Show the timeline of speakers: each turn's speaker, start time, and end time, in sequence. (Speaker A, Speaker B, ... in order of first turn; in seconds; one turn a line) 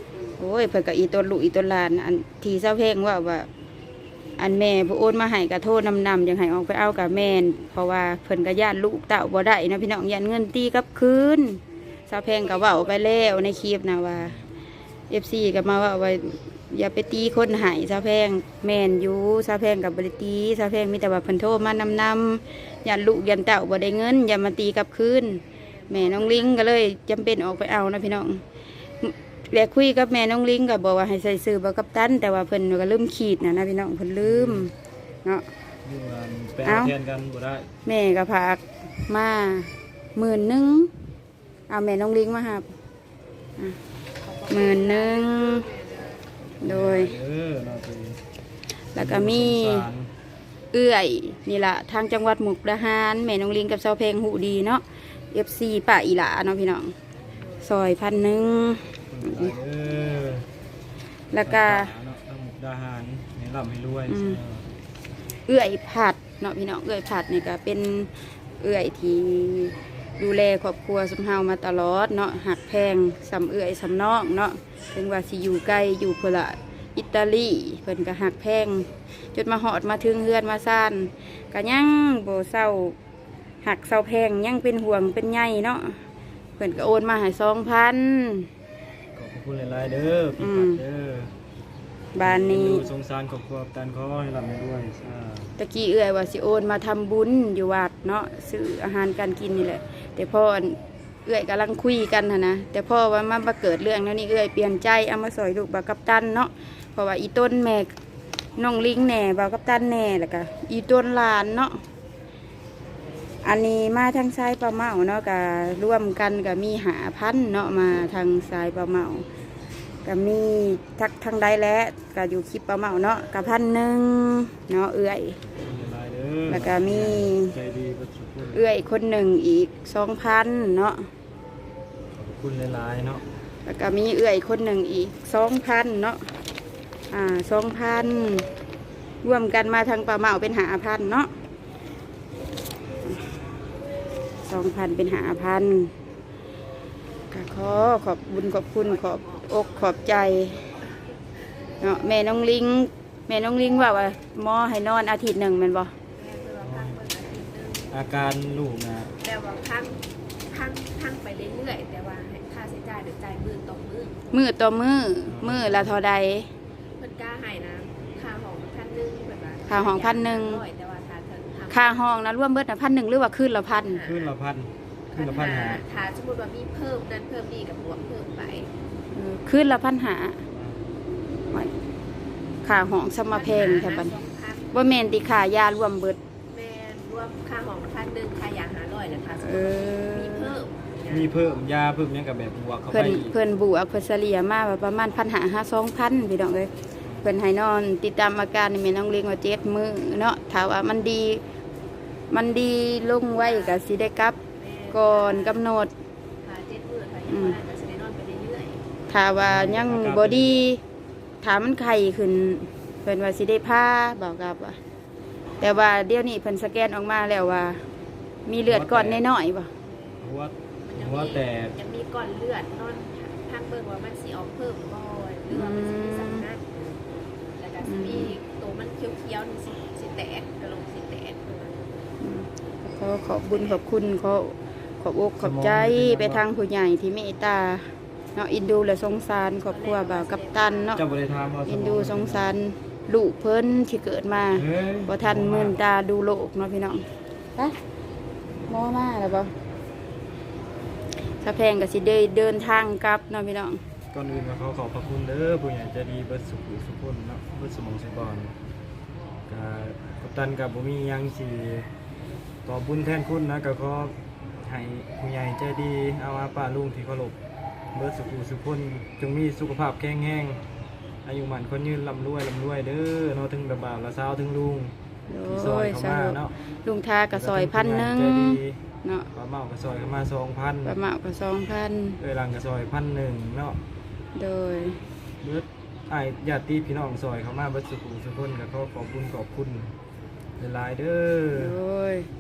Speaker A: 0.4-3.5
Speaker A: 4.4-14.4
Speaker B: 12.4-13.2
Speaker C: 14.1-14.5
Speaker A: 15.1-28.4
Speaker B: 25.9-26.5
Speaker A: 29.0-34.7
Speaker C: 34.2-34.7
Speaker C: 35.8-37.7
Speaker A: 36.6-36.9
Speaker A: 37.9-40.9
Speaker A: 41.7-42.7
Speaker B: 44.2-46.3
Speaker A: 44.5-45.7
Speaker C: 46.6-48.2
Speaker A: 46.6-47.1
Speaker A: 48.9-49.9
Speaker C: 49.0-50.1
Speaker A: 50.7-56.9
Speaker A: 57.6-59.5
Speaker C: 59.1-60.5
Speaker A: 61.3-61.9
Speaker C: 61.4-64.7
Speaker A: 64.1-64.4
Speaker A: 65.5-83.0
Speaker A: 83.6-86.0
Speaker A: 86.6-88.5
Speaker C: 89.2-91.3
Speaker A: 90.4-90.8
Speaker A: 92.2-92.9
Speaker C: 92.2-95.5
Speaker A: 95.6-107.9
Speaker A: 108.6-111.8
Speaker A: 113.4-119.3
Speaker A: 120.0-125.4
Speaker C: 125.6-128.7
Speaker A: 126.5-127.5
Speaker A: 128.5-131.1
Speaker C: 132.1-133.2
Speaker A: 133.7-136.2
Speaker A: 137.1-138.5
Speaker A: 139.2-141.3
Speaker A: 144.4-145.9
Speaker A: 147.3-150.6
Speaker B: 148.8-151.1
Speaker A: 151.8-155.9
Speaker B: 156.2-157.9
Speaker C: 156.6-157.0
Speaker C: 157.9-159.1
Speaker B: 159.2-164.2
Speaker A: 164.3-166.5
Speaker C: 165.3-166.0
Speaker B: 167.0-172.1
Speaker A: 169.7-170.6
Speaker A: 171.7-174.0
Speaker B: 173.8-174.3
Speaker C: 174.0-175.8
Speaker B: 175.1-178.7
Speaker A: 179.1-180.4
Speaker C: 180.5-180.9
Speaker A: 182.6-184.2
Speaker B: 183.3-184.7
Speaker A: 184.7-186.2
Speaker B: 186.5-191.4
Speaker A: 189.4-190.6
Speaker C: 191.1-193.4
Speaker A: 192.9-196.7
Speaker A: 197.2-201.4
Speaker A: 202.3-204.4
Speaker B: 203.3-203.9
Speaker B: 204.6-205.7
Speaker A: 204.9-205.9
Speaker B: 206.4-208.8
Speaker A: 207.3-207.6
Speaker A: 209.1-210.8
Speaker C: 209.4-210.6
Speaker A: 211.4-214.8
Speaker A: 215.6-217.8
Speaker A: 218.5-219.7
Speaker C: 218.7-219.2
Speaker C: 220.2-221.8
Speaker B: 220.8-227.0
Speaker A: 225.5-226.5
Speaker B: 227.6-231.8
Speaker A: 227.8-228.3
Speaker A: 232.2-241.0
Speaker B: 233.5-233.8
Speaker C: 235.4-236.4
Speaker B: 239.7-241.0
Speaker C: 240.9-242.5
Speaker A: 241.7-247.1
Speaker C: 244.5-245.8
Speaker A: 248.7-249.5
Speaker A: 251.4-253.8
Speaker C: 254.1-258.6
Speaker C: 259.5-261.9
Speaker C: 262.7-267.4
Speaker C: 267.9-270.6
Speaker C: 271.2-274.9
Speaker A: 275.3-279.3
Speaker C: 275.4-276.6
Speaker C: 277.3-278.8
Speaker C: 279.3-281.0
Speaker A: 280.8-282.2
Speaker C: 282.2-283.8
Speaker A: 284.4-285.0
Speaker C: 285.4-289.9
Speaker C: 290.6-291.8
Speaker A: 291.5-292.3